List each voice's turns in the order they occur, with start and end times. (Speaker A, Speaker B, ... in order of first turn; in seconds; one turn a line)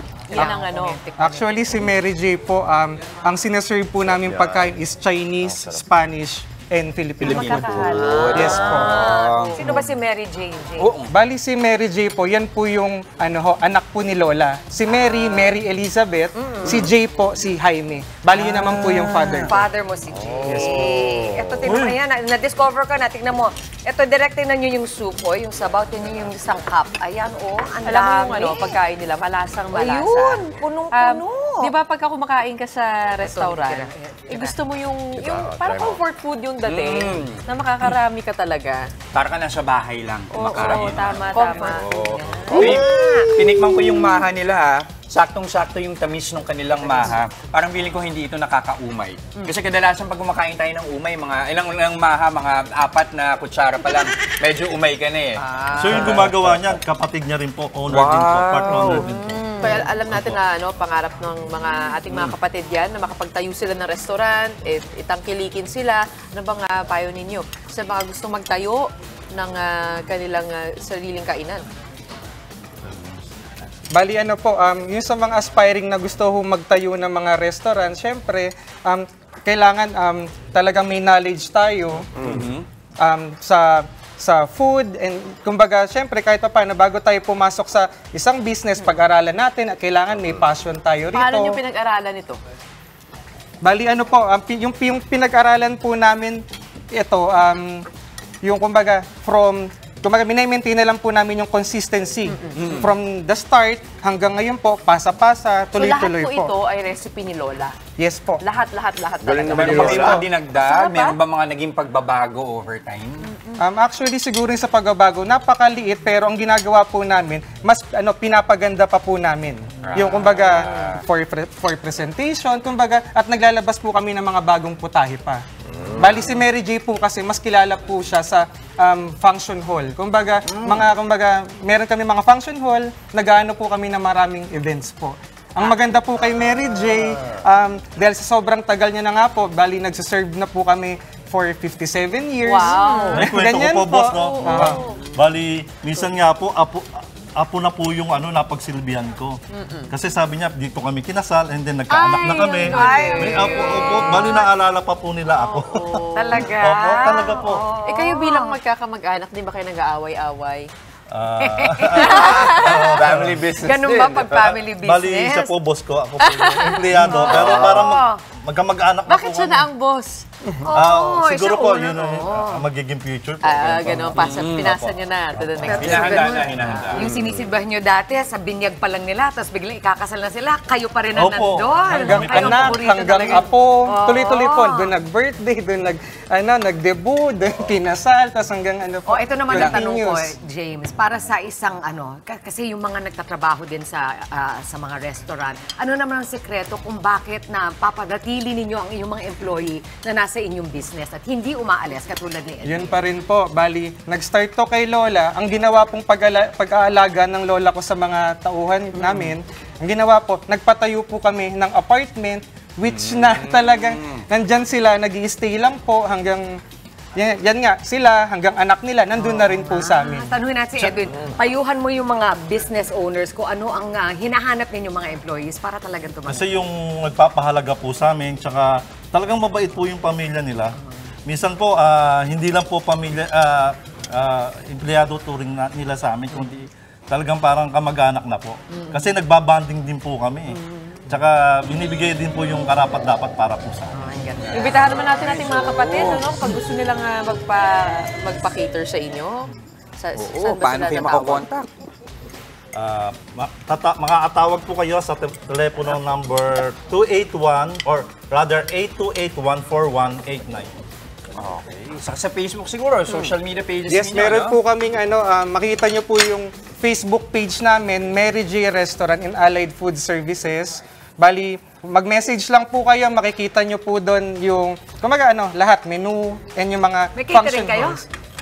Speaker A: 0.3-1.0
Speaker B: 0.3-1.9
Speaker C: 1.2-7.5
Speaker D: 4.1-4.8
Speaker D: 5.4-5.8
Speaker E: 7.2-10.0
Speaker A: 7.2-9.7
Speaker D: 7.5-8.4
Speaker B: 8.1-10.9
Speaker C: 8.3-9.1
Speaker E: 10.8-11.1
Speaker C: 11.1-19.6
Speaker B: 14.9-15.5
Speaker B: 16.4-16.9
Speaker E: 18.4-19.5
Speaker B: 18.8-28.8
Speaker D: 20.2-21.8
Speaker C: 20.4-20.9
Speaker A: 27.8-38.9
Speaker B: 29.7-31.7
Speaker B: 33.2-34.5
Speaker D: 35.2-36.0
Speaker E: 36.6-37.4
Speaker E: 39.1-56.8
Speaker A: 40.3-42.5
Speaker B: 40.4-43.4
Speaker D: 41.8-43.6
Speaker A: 55.6-56.3
Speaker F: 55.8-60.4
Speaker E: 57.9-59.1
Speaker A: 58.9-71.6
Speaker C: 73.9-82.1
Speaker D: 82.2-82.5
Speaker E: 82.2-82.7
Speaker C: 83.0-91.6
Speaker A: 91.1-92.4
Speaker C: 93.6-96.4
Speaker C: 96.9-97.8
Speaker C: 98.4-106.5
Speaker A: 102.3-102.7
Speaker E: 102.5-102.9
Speaker A: 105.8-107.8
Speaker C: 108.0-108.4
Speaker A: 108.4-111.2
Speaker D: 109.2-110.2
Speaker E: 109.5-113.2
Speaker C: 109.5-110.3
Speaker A: 113.2-113.6
Speaker C: 113.6-125.4
Speaker E: 119.8-121.0
Speaker D: 125.7-126.4
Speaker C: 126.0-144.8
Speaker D: 130.4-130.9
Speaker A: 142.4-143.3
Speaker B: 142.9-143.1
Speaker F: 143.1-149.4
Speaker A: 144.2-145.0
Speaker A: 149.5-149.9
Speaker F: 149.9-157.6
Speaker A: 151.9-154.4
Speaker B: 152.6-154.4
Speaker A: 155.3-160.7
Speaker B: 156.2-158.6
Speaker F: 161.1-163.4
Speaker B: 161.4-162.3
Speaker A: 162.0-162.9
Speaker D: 162.0-164.6
Speaker B: 163.6-165.5
Speaker F: 164.8-169.7
Speaker A: 166.2-167.2
Speaker B: 167.0-168.2
Speaker D: 167.2-167.8
Speaker A: 169.1-170.2
Speaker B: 170.6-172.6
Speaker F: 170.7-176.3
Speaker A: 173.4-176.0
Speaker E: 174.2-174.7
Speaker E: 175.6-177.1
Speaker B: 175.6-184.9
Speaker D: 177.0-177.5
Speaker F: 181.2-183.0
Speaker C: 182.0-190.4
Speaker B: 189.1-202.9
Speaker E: 189.5-189.8
Speaker C: 202.6-216.5
Speaker B: 208.9-209.2
Speaker E: 212.8-214.2
Speaker C: 217.2-220.3
Speaker B: 219.1-226.5
Speaker F: 226.3-243.9
Speaker B: 243.9-244.9
Speaker E: 244.4-246.3
Speaker A: 244.5-251.5
Speaker E: 250.2-251.7
Speaker F: 252.8-260.7
Speaker E: 261.4-264.6
Speaker C: 263.9-278.1
Speaker B: 277.1-278.0